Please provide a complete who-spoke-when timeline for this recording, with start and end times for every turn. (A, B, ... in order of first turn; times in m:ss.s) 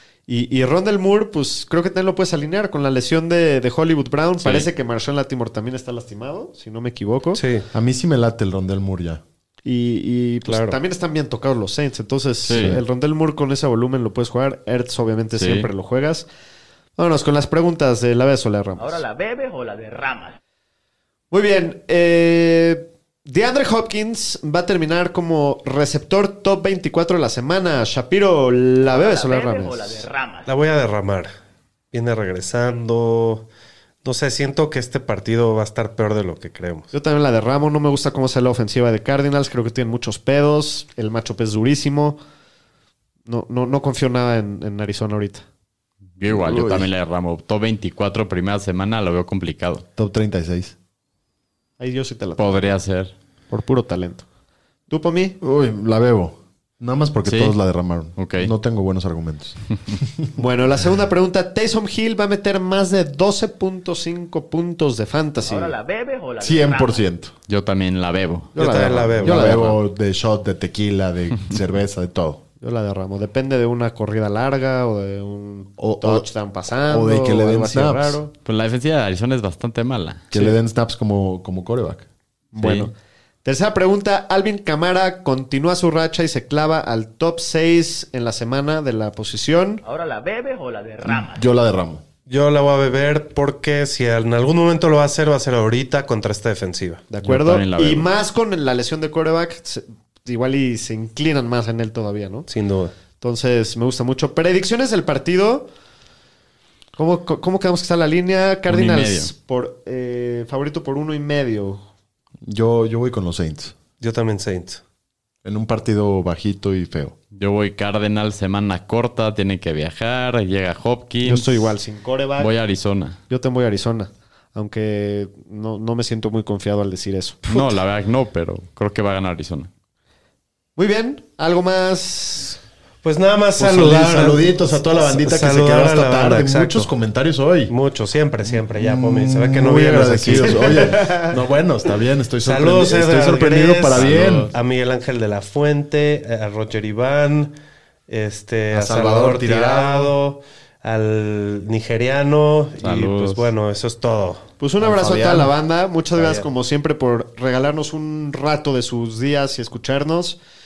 0:00.3-0:07.4 A
0:04.4-0:04.7 B
0:07.4-0:07.7 C
0:07.7-0:09.2 D
0:09.6-0:16.3 A
0:10.5-0:10.8 C
0:12.4-0:12.8 B
0:12.6-0:12.8 D
0:15.4-0:15.7 B
0:17.0-0:19.0 A
0:18.8-0:20.4 E
0:21.3-0:30.0 A
0:28.8-0:30.5 E
0:30.5-0:31.3 C
0:31.9-0:33.5 C
0:34.0-0:36.9 C
0:36.9-0:42.2 A
0:43.3-0:45.4 A
0:46.2-0:49.8 B
0:46.3-0:46.9 D
0:50.0-0:50.7 D
0:51.8-0:52.7 A
0:52.4-0:53.1 B
0:53.5-0:54.2 A
0:54.9-0:55.4 A
0:55.4-1:00.3 D
0:57.3-0:57.6 B
0:58.2-0:58.5 B
1:00.4-1:05.8 A
1:05.4-1:07.1 E
1:06.4-1:07.3 D
1:07.5-1:08.5 B
1:08.6-1:09.8 A
1:08.6-1:09.5 C
1:09.2-1:12.4 D
1:12.6-1:18.3 A
1:15.8-1:16.3 D
1:16.8-1:18.3 D
1:18.4-1:20.3 B
1:20.3-1:22.1 D
1:22.5-1:22.9 A
1:22.6-1:22.9 B
1:23.4-1:29.8 A
1:29.8-1:31.5 E
1:31.0-1:32.0 D
1:32.3-1:37.2 C
1:37.2-1:42.5 A
1:37.2-1:38.1 B
1:42.5-1:42.9 C
1:43.2-1:45.7 A
1:47.0-1:51.8 A
1:48.7-1:49.3 B
1:52.5-1:53.7 D
1:54.0-1:54.8 C
1:55.4-1:57.2 D
1:57.4-2:01.7 B
2:01.2-2:02.5 A
2:02.4-2:03.2 B
2:03.3-2:07.8 A
2:07.5-2:09.7 B
2:10.8-2:12.6 A
2:13.0-2:16.9 C
2:13.6-2:17.7 D
2:17.7-2:21.0 C
2:18.4-2:24.5 D
2:20.4-2:21.4 A
2:22.4-2:27.5 C
2:23.9-2:24.5 B
2:28.1-2:34.4 C
2:28.7-2:30.1 D
2:32.8-2:33.5 B
2:34.6-2:40.4 A
2:34.8-2:35.6 D
2:36.2-2:36.5 C